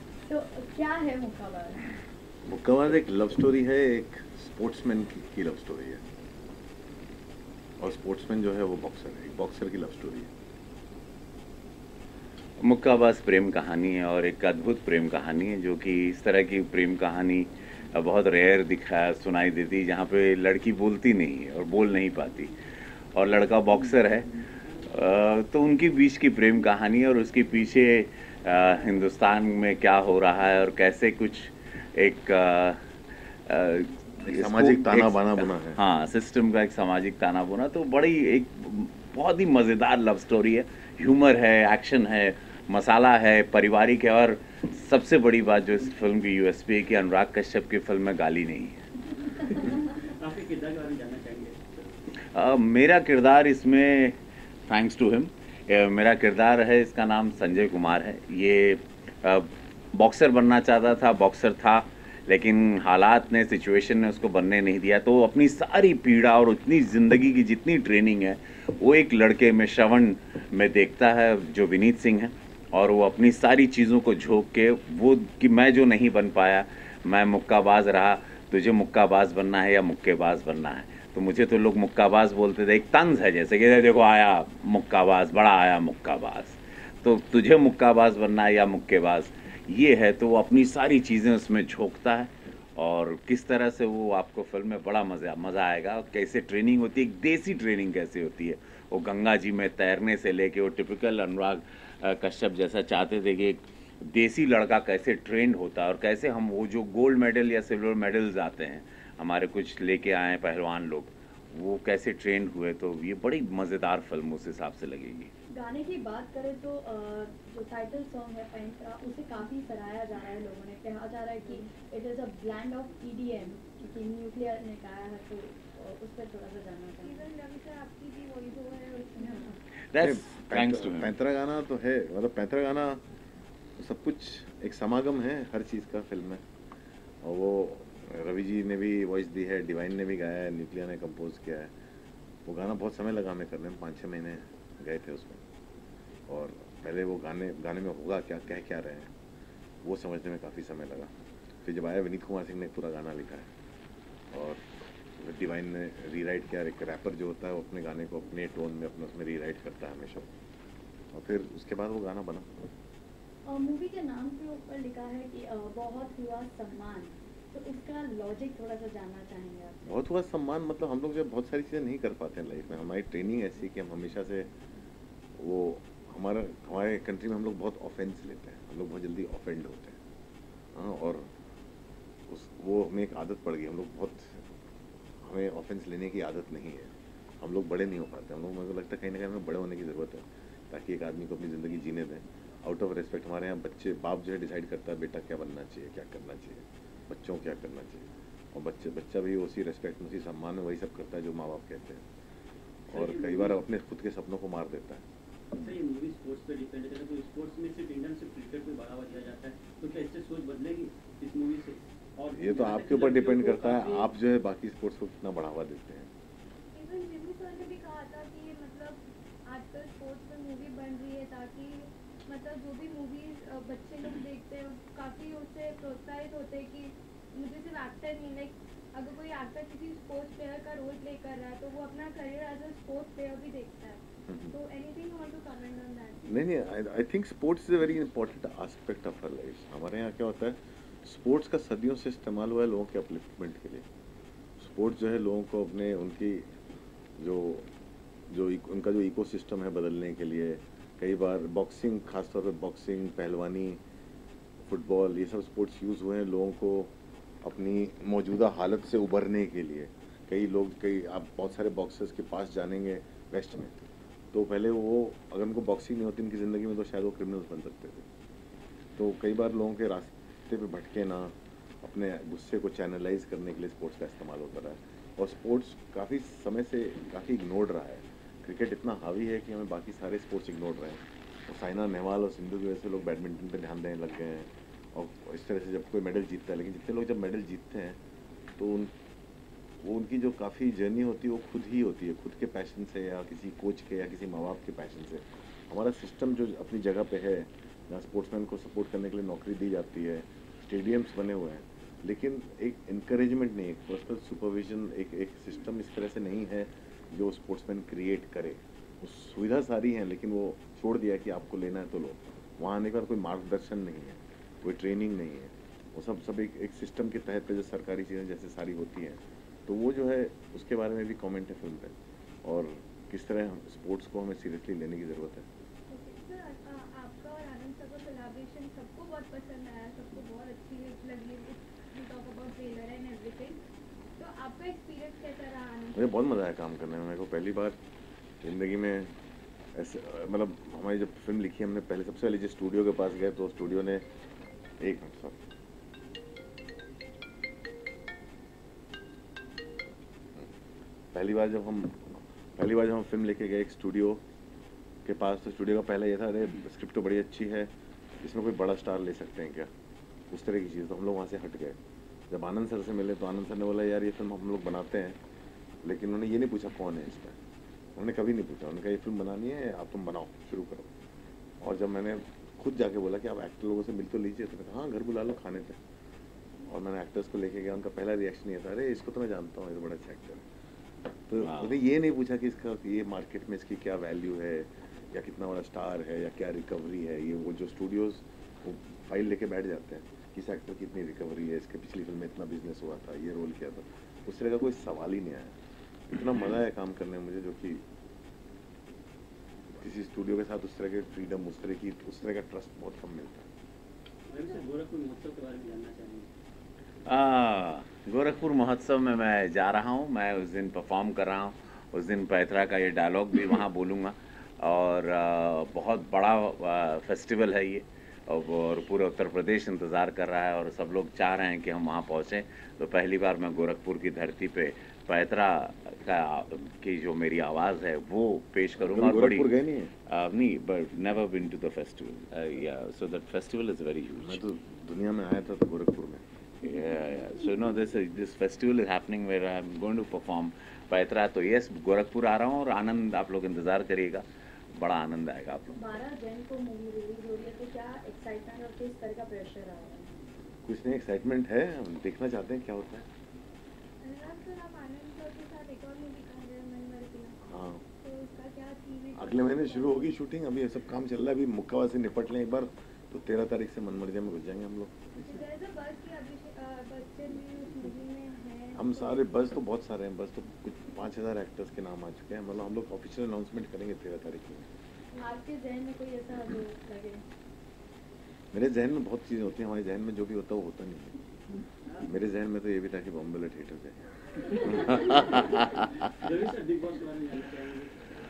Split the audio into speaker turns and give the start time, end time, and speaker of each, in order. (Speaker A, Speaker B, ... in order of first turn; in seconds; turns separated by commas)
Speaker A: 0.2-1.8, Speaker B: 2.5-6.0, Speaker B: 7.8-10.3, Speaker C: 12.6-48.9, Speaker B: 34.3-35.8, Speaker D: 49.7-51.9, Speaker C: 52.1-115.3, Speaker A: 115.5-127.3, Speaker E: 127.0-129.5, Speaker A: 129.2-129.5, Speaker C: 129.9-131.2, Speaker B: 130.0-133.0, Speaker B: 133.8-136.4, Speaker B: 137.2-141.7, Speaker B: 142.4-145.4, Speaker B: 146.3-149.1, Speaker B: 149.8-151.1, Speaker B: 151.6-153.5, Speaker B: 154.3-160.3, Speaker B: 161.1-162.6, Speaker A: 163.4-169.8, Speaker B: 169.8-174.5, Speaker B: 175.4-180.0, Speaker B: 180.7-181.3, Speaker B: 182.3-184.4, Speaker B: 185.2-202.0, Speaker B: 202.9-205.0, Speaker D: 202.9-203.5, Speaker D: 205.6-214.1, Speaker B: 212.3-216.1, Speaker E: 216.7-236.3, Speaker B: 234.3-234.5, Speaker B: 236.2-243.8, Speaker B: 244.6-246.5, Speaker B: 247.2-247.7, Speaker B: 248.3-253.8, Speaker B: 254.6-268.1, Speaker B: 269.0-288.0, Speaker B: 288.6-288.9, Speaker B: 289.8-325.4, Speaker E: 325.9-333.6, Speaker E: 334.2-336.0, Speaker B: 335.9-337.8, Speaker B: 338.4-339.1, Speaker B: 339.7-344.1, Speaker B: 344.8-345.4, Speaker B: 351.1-354.2, Speaker B: 355.0-359.7, Speaker B: 360.3-361.8, Speaker B: 362.3-365.2, Speaker B: 365.8-367.4, Speaker B: 367.9-370.9, Speaker B: 371.6-375.8, Speaker B: 376.6-380.4, Speaker B: 381.3-395.6, Speaker C: 381.4-381.7, Speaker B: 396.1-397.8, Speaker B: 399.7-403.5, Speaker D: 404.3-406.3, Speaker C: 407.1-429.5, Speaker B: 428.8-429.9, Speaker C: 430.1-434.4, Speaker B: 434.2-436.2, Speaker C: 436.6-445.8, Speaker A: 445.7-450.1, Speaker B: 450.6-453.1, Speaker E: 454.0-457.4, Speaker B: 457.4-457.8, Speaker E: 458.0-460.1, Speaker B: 459.1-465.4, Speaker E: 465.2-469.2, Speaker B: 468.7-474.7, Speaker E: 475.1-475.7, Speaker A: 475.2-477.2, Speaker B: 478.5-481.1, Speaker B: 482.1-484.0, Speaker B: 484.6-484.9, Speaker C: 484.9-485.8, Speaker D: 486.2-488.1